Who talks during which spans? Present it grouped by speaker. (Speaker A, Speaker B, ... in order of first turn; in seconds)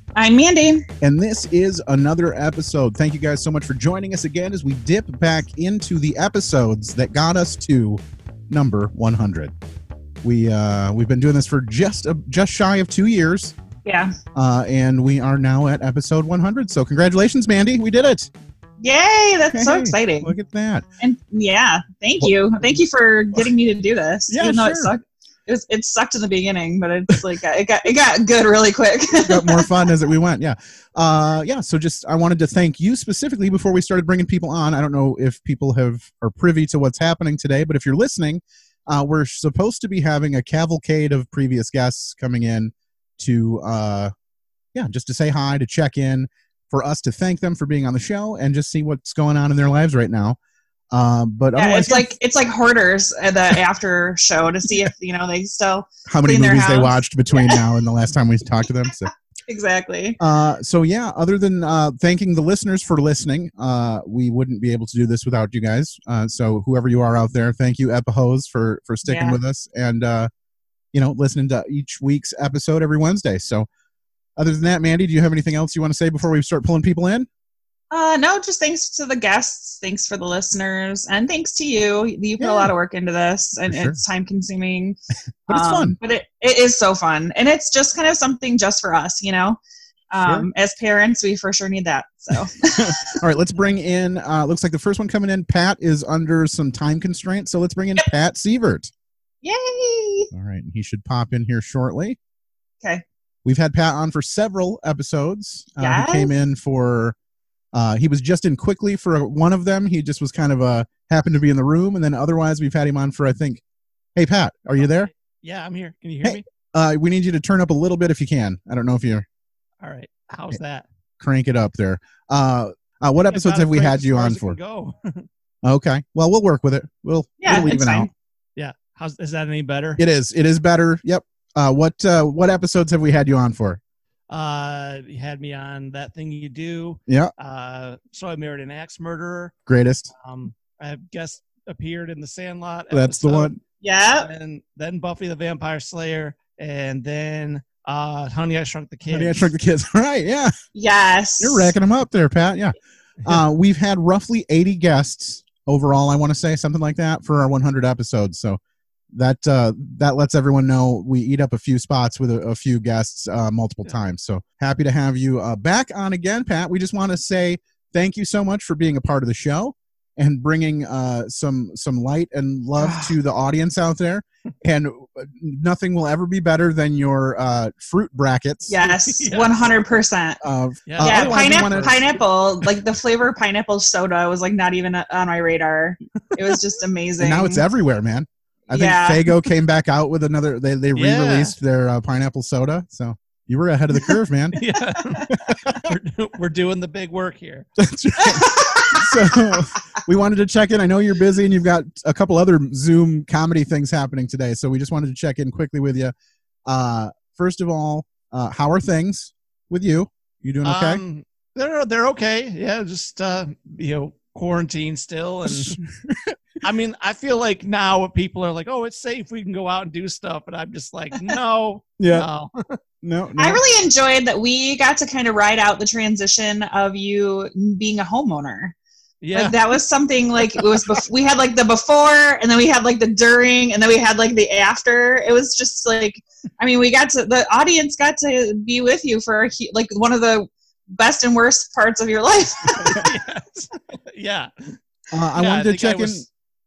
Speaker A: 0.1-0.8, 13.8-14.1, 18.8-20.3, 21.0-29.6, 51.5-57.6, 59.5-60.2, 69.0-69.4, 77.9-85.0, 85.5-89.6, 90.1-92.9, 99.4-100.3, 105.8-106.3, 127.4-128.1, 143.8-144.3, 150.7-151.7, 172.8-173.1, 178.7-180.4, 181.0-187.6, 188.7-189.2, 198.2-199.1, 223.4-228.7, 229.3-243.0
Speaker B: 1.0-9.5, 10.2-13.5, 14.3-18.3, 19.5-20.8, 24.3-24.9, 29.2-44.1, 44.7-50.4, 50.9-52.1, 56.1-59.1, 60.2-70.3, 70.9-73.7, 74.4-77.3, 82.4-82.7, 83.7-84.0, 85.5-86.0, 90.2-90.5, 92.8-98.9, 100.3-102.2, 103.4-107.1, 107.7-113.6, 114.1-115.1, 116.2-119.2, 121.2-124.6, 125.6-128.1, 130.0-133.8, 139.7-140.1, 142.9-143.6, 149.1-150.5, 151.4-158.6, 159.1-178.8, 180.4-182.0, 187.2-194.6, 195.5-195.8, 197.8-206.1, 206.7-211.0, 215.4-216.3, 222.0-222.3, 223.0-223.6, 245.1-246.2
Speaker C: 114.8-116.4, 119.8-120.8, 123.3-125.2, 128.6-130.0, 134.3-139.5, 140.2-143.5, 144.1-149.5, 179.1-179.8, 180.9-182.1, 190.9-191.5, 194.5-197.7, 210.6-215.7, 216.6-222.5, 229.2-229.6, 242.8-244.5, 245.3-246.2